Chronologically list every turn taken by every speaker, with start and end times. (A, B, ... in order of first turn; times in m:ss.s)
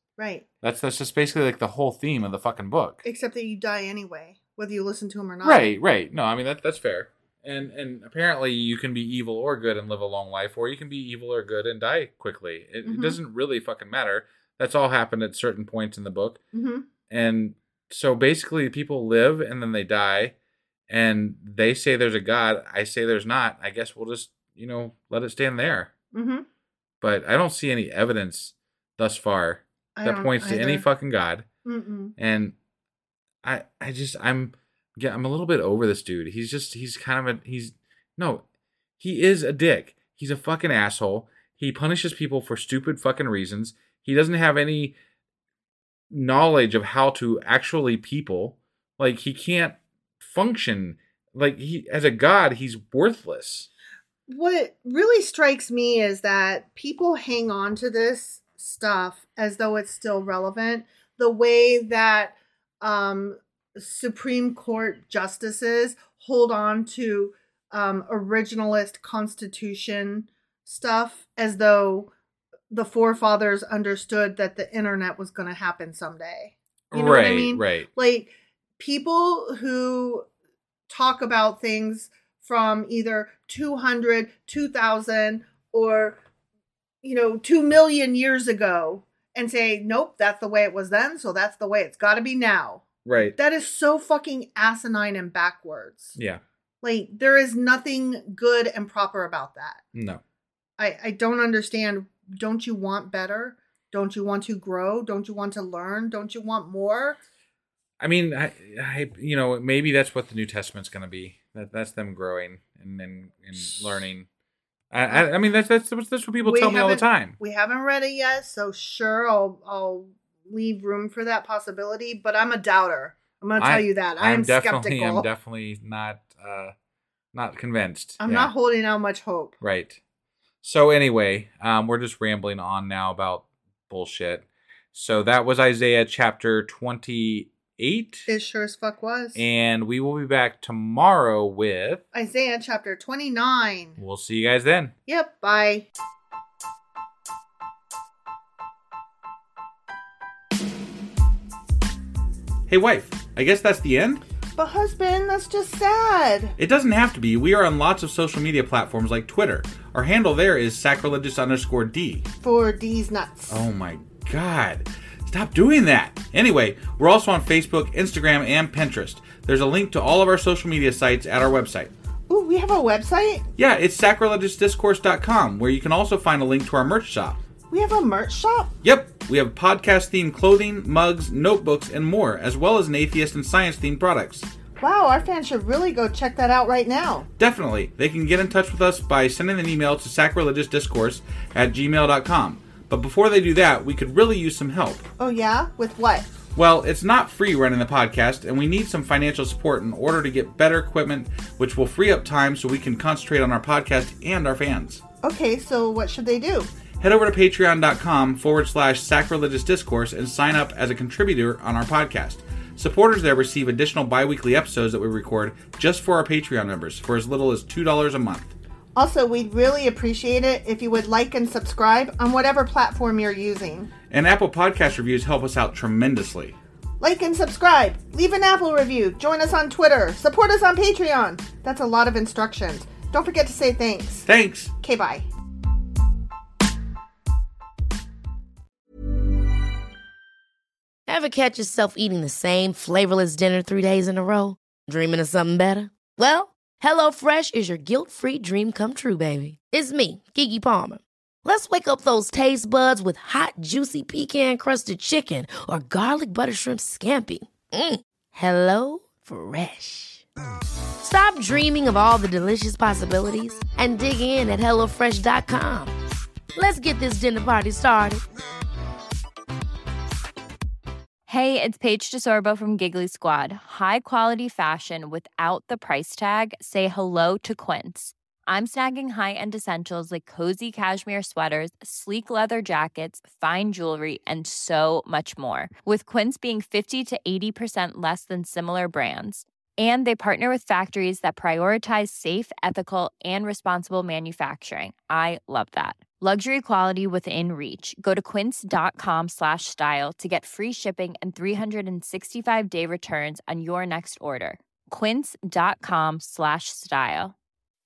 0:00.2-0:00.4 A
0:00.6-0:03.0 B
0:03.0-0:05.7 A
0:05.4-0:16.4 B
0:12.8-0:13.2 A
0:16.5-0:16.9 A
0:17.1-0:20.3 B
0:20.9-0:25.9 B
0:26.1-0:26.4 A
0:27.0-0:31.5 B
0:30.0-0:30.8 A
0:31.6-0:32.1 A
0:32.2-0:32.5 B
0:33.4-0:38.4 B
0:39.0-0:45.0 B
0:46.1-0:53.7 B
0:54.3-1:12.1 A
1:12.7-1:20.3 A
1:16.9-1:17.9 B
1:20.9-1:26.2 A
1:27.0-1:36.2 A
1:33.0-1:33.4 B
1:36.2-1:36.4 B
1:36.8-1:39.8 A
1:39.9-1:40.2 B
1:40.8-1:47.2 A
1:48.0-1:54.3 B
1:54.9-1:57.4 B
1:56.4-2:05.3 A
2:03.6-2:06.7 B
2:07.3-2:08.5 B
2:08.2-2:09.5 A
2:09.6-2:10.0 B
2:10.6-2:18.3 B
2:18.3-2:19.4 A
2:19.4-2:22.0 B
2:22.1-2:24.0 A
2:24.0-2:24.9 B
2:25.1-2:25.9 A
2:32.7-2:34.2 B
2:34.6-2:36.6 A
2:36.6-2:42.3 B
2:42.4-2:43.6 A
2:43.5-2:51.9 B
2:52.3-2:53.5 A
2:53.6-2:57.4 B
2:57.7-2:58.7 A
2:58.8-3:04.5 B
3:04.8-3:07.3 A
3:07.4-3:15.1 B
3:15.2-3:16.3 A
3:16.6-3:25.0 B
3:25.2-3:26.7 A
3:27.0-3:38.5 B
3:39.0-3:43.9 A
3:44.1-3:46.6 B
3:47.0-3:54.3 A
3:54.3-3:54.7 B
3:54.8-3:55.3 A
4:01.1-4:20.2 C
4:21.0-4:25.9 C
4:26.6-4:28.2 C
4:31.3-5:07.4 D